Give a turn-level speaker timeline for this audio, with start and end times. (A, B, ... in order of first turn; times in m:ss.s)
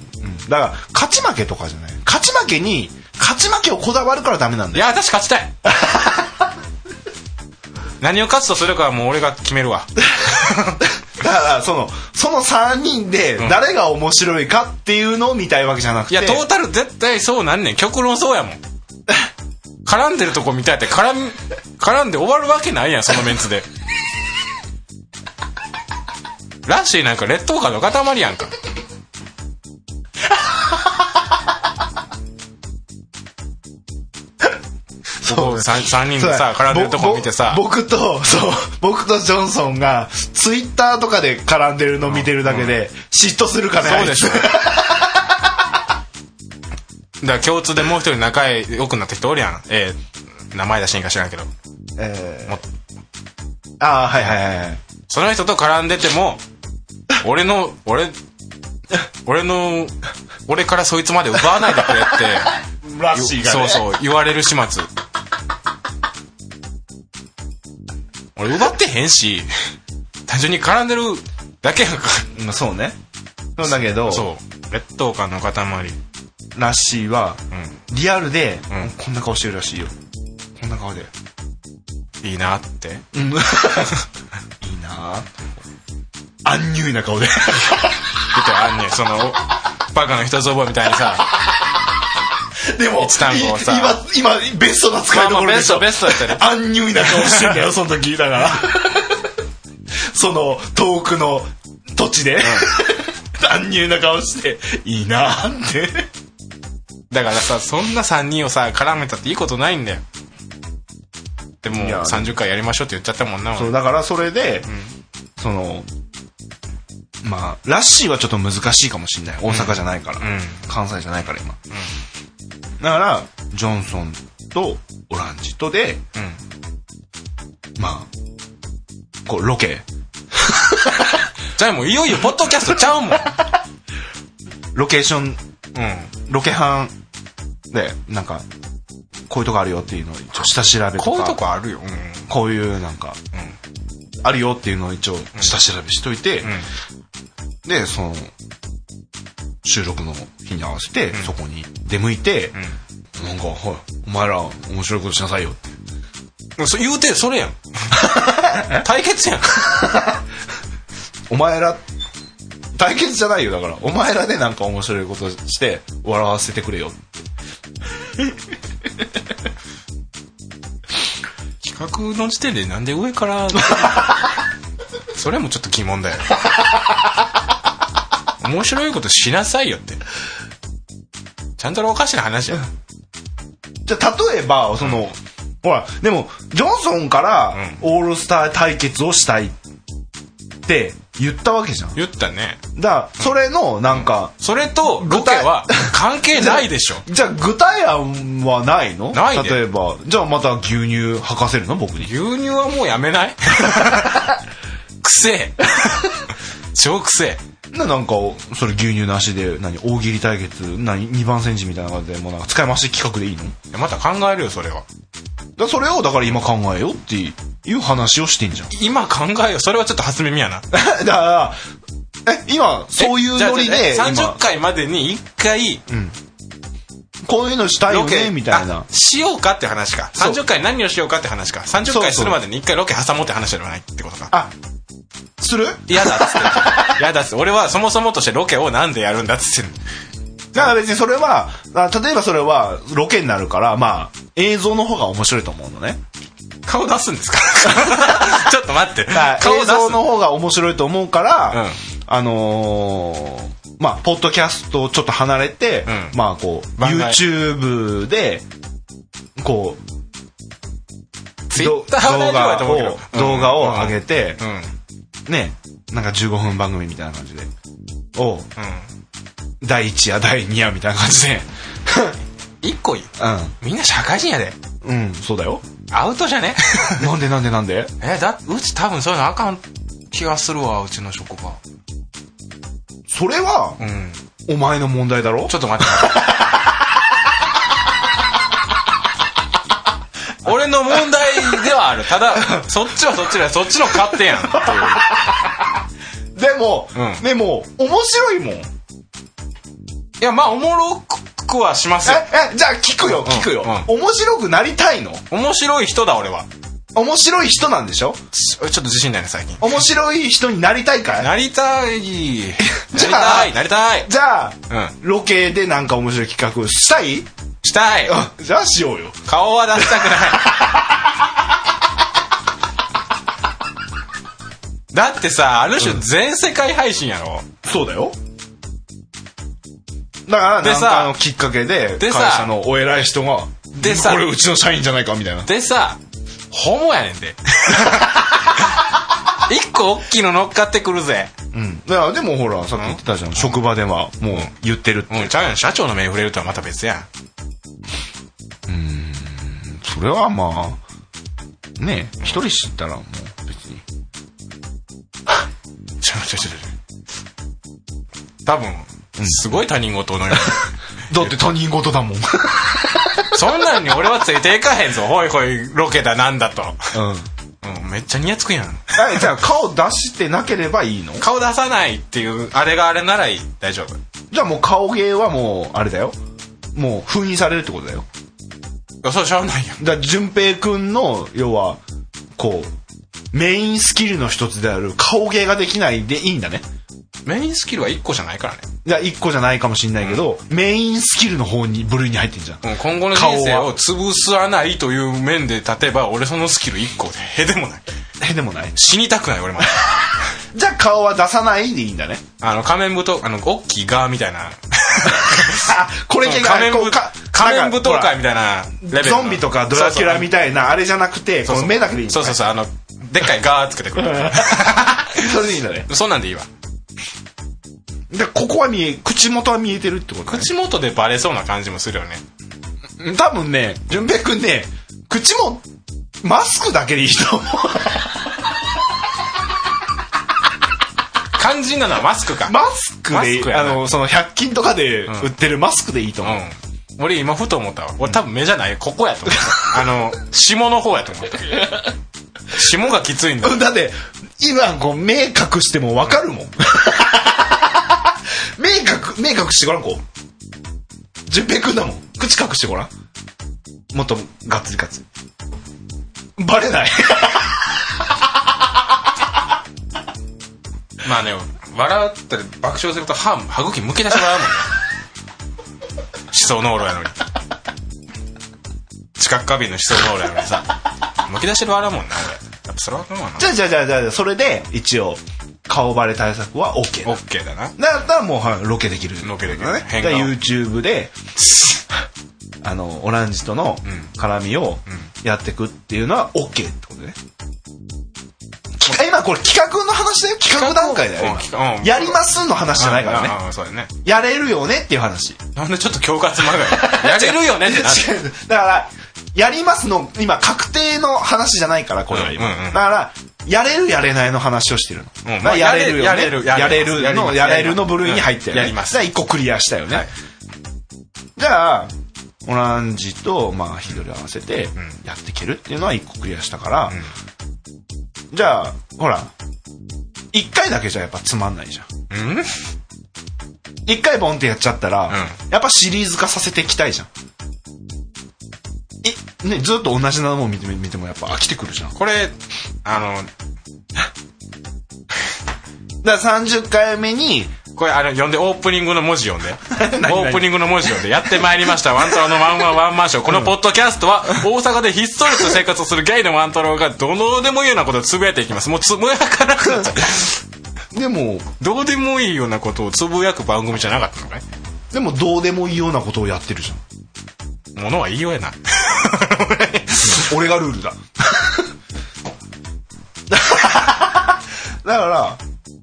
0:00.2-0:04.8 A
0:04.7-0:05.5 B
0:05.7-0:06.2 A
0:08.0-0:10.8 B
0:11.2-0:16.4 A
0:16.1-0:18.6 B
0:19.8-0:23.7 B
0:26.6-0:28.5 B
0:35.2-0:45.3 A
0:35.2-0:37.6 B
0:42.0-0:42.8 B
0:43.8-0:44.6 B
0:47.2-0:51.5 B
0:52.0-0:52.6 A
0:53.8-0:54.8 A
0:55.1-0:56.4 B
0:57.2-0:58.1 B
0:59.2-1:00.0 B
1:00.5-1:02.5 B
1:02.8-1:03.9 A
1:03.1-1:04.9 B
1:08.4-1:09.5 B
1:10.3-1:12.3 B
1:12.3-1:13.0 A
1:13.6-1:14.3 A
1:13.7-1:16.0 B
1:16.6-1:19.9 A
1:17.5-1:17.8 B
1:20.6-1:21.1 A
1:22.2-1:23.1 B
1:23.1-1:24.0 A
1:24.6-1:25.3 A
1:26.4-1:28.0 A
1:28.3-1:31.3 B
1:32.7-1:39.2 A
1:33.0-1:34.0 B
1:35.1-1:36.4 B
1:37.0-1:37.6 B
1:40.1-1:46.1 A
1:42.4-1:42.7 B
1:47.1-1:50.0 B
1:51.6-1:53.8 B
1:51.7-1:52.4 A
1:53.5-1:54.7 A
1:54.7-1:54.9 B
1:55.4-1:55.9 A
1:57.2-2:01.6 A
1:59.5-2:00.6 B
2:02.8-2:06.0 A
2:06.2-2:06.4 B
2:07.8-2:08.1 A
2:09.2-2:09.8 A
2:10.4-2:10.9 A
2:11.6-2:13.3 B
2:14.8-2:15.4 A
2:15.7-2:16.1 B
2:16.3-2:17.0 A
2:17.7-2:18.4 A
2:19.3-2:21.4 A
2:21.0-2:22.3 B
2:22.3-2:23.2 A
2:24.2-2:26.6 A
2:27.6-2:28.3 A
2:29.6-2:32.6 A
2:33.2-2:35.6 A
2:36.6-2:40.0 B
2:38.1-2:38.8 A
2:41.3-2:41.8 A
2:42.8-2:47.0 A
2:51.6-2:54.1 B
2:55.1-2:56.3 B
2:58.4-3:00.0 B
3:01.6-3:02.6 B
3:03.9-3:09.6 A
3:07.5-3:07.8 B
3:10.7-3:12.0 A
3:12.0-3:12.6 B
3:12.8-3:14.3 A
3:13.9-3:17.0 B
3:14.8-3:22.1 A
3:19.1-3:19.6 B
3:22.0-3:24.3 B
3:25.0-3:26.2 B
3:26.7-3:27.4 B
3:27.7-3:33.6 A
3:33.7-3:34.9 B
3:35.6-3:38.7 A
3:38.7-3:40.7 B
3:40.7-3:41.6 A
3:42.2-3:44.4 A
3:43.0-3:45.8 B
3:45.9-3:46.2 A
3:47.2-3:48.9 A
3:47.9-3:54.3 B
3:51.8-3:52.4 A
3:55.4-3:57.0 A
3:55.9-3:59.8 B
4:00.5-4:06.0 A
4:06.7-4:10.0 B
4:08.0-4:08.3 A
4:09.1-4:18.4 A
4:11.5-4:11.8 B
4:15.9-4:16.2 B
4:16.8-4:17.2 B
4:19.4-4:19.8 A
4:21.5-4:24.8 B
4:21.5-4:24.4 A
4:25.3-4:27.5 A
4:28.2-4:28.5 A
4:28.6-4:28.9 B
4:29.6-4:32.2 A
4:32.6-4:34.6 B
4:33.2-4:33.6 A
4:34.8-4:35.6 A
4:35.9-4:37.1 B
4:37.0-4:37.9 A
4:38.0-4:41.6 B
4:43.1-4:43.8 A
4:43.8-4:44.2 B
4:44.5-4:45.6 A
4:45.5-4:46.5 B
4:46.1-4:46.4 A
4:50.4-4:55.1 B
4:54.6-4:55.4 A
4:56.4-4:58.7 A
4:57.0-4:57.2 B
5:00.2-5:02.3 B
5:02.0-5:05.2 A
5:03.0-5:03.9 B
5:05.3-5:06.5 B
5:07.0-5:08.2 A
5:08.3-5:09.8 B
5:09.6-5:11.3 A
5:11.2-5:14.1 B
5:12.6-5:17.3 A
5:14.7-5:15.0 B
5:17.6-5:18.2 B
5:18.0-5:21.1 A
5:19.2-5:20.6 B
5:24.9-5:27.5 B
5:27.6-5:28.2 A
5:30.3-5:35.5 A
5:30.6-5:31.2 B
5:32.0-5:32.5 B
5:33.8-5:34.3 B
5:35.5-5:36.0 B
5:36.5-5:38.8 B
5:39.4-5:41.3 B
5:41.5-5:45.3 A
5:42.8-5:43.6 B
5:45.1-5:47.1 B
5:48.7-5:50.8 A
5:51.8-5:53.8 A
5:56.0-5:56.7 B
5:58.4-6:01.3 B
5:59.2-5:59.6 A
6:01.1-6:03.3 A
6:03.3-6:07.0 B
6:06.9-6:07.3 A
6:07.6-6:09.3 B
6:08.9-6:11.2 A
6:11.2-6:14.0 B
6:14.3-6:16.2 A
6:16.8-6:18.0 A
6:19.0-6:19.8 B
6:19.8-6:21.8 A
6:22.4-6:22.7 A
6:23.3-6:26.6 A
6:27.2-6:28.7 B
6:28.8-6:33.7 A
6:32.6-6:37.8 B
6:38.2-6:38.8 A
6:38.8-6:40.1 B
6:40.5-6:42.2 A
6:42.4-6:50.3 B
6:45.2-6:48.2 A
6:48.8-6:52.4 A
6:51.4-6:55.2 B
6:54.0-6:55.9 A
6:55.9-6:56.5 B
6:58.1-7:00.5 A
7:00.2-7:02.2 B
7:03.0-7:05.6 A
7:06.2-7:08.1 A
7:11.3-7:12.6 B
7:12.4-7:16.4 A
7:13.1-7:13.8 B
7:16.2-7:21.8 B
7:22.5-7:23.6 B
7:23.4-7:28.0 A
7:28.6-7:30.0 A
7:31.3-7:32.9 A
7:33.9-7:35.0 A
7:36.4-7:37.6 A
7:41.0-7:44.7 B
7:46.3-7:47.2 B
7:49.2-7:50.7 B
7:51.2-7:53.5 B
7:53.4-7:57.2 A
7:57.0-7:57.8 B
7:57.8-8:01.1 A
7:59.2-8:00.4 B
8:01.4-8:01.8 B
8:02.6-8:07.2 A
8:08.8-8:13.4 A
8:10.5-8:12.2 B
8:12.7-8:13.9 B
8:14.0-8:15.4 A
8:15.6-8:18.1 B
8:16.5-8:30.1 A
8:22.1-8:22.8 B
8:25.2-8:29.0 B
8:31.4-8:31.9 A
8:32.4-8:37.0 A
8:38.3-8:39.3 A
8:40.3-8:41.9 A
8:42.1-8:42.6 B
8:43.9-8:47.1 A
8:45.1-8:45.4 B
8:49.0-8:52.0 A
8:52.0-8:53.3 B
8:56.0-8:57.5 A
8:57.7-9:10.4 B
8:59.7-9:00.5 A
9:10.9-9:11.5 A
9:11.6-9:14.4 B
9:14.9-9:16.8 A
9:17.7-9:20.3 B
9:20.0-9:21.7 A
9:23.3-9:25.4 A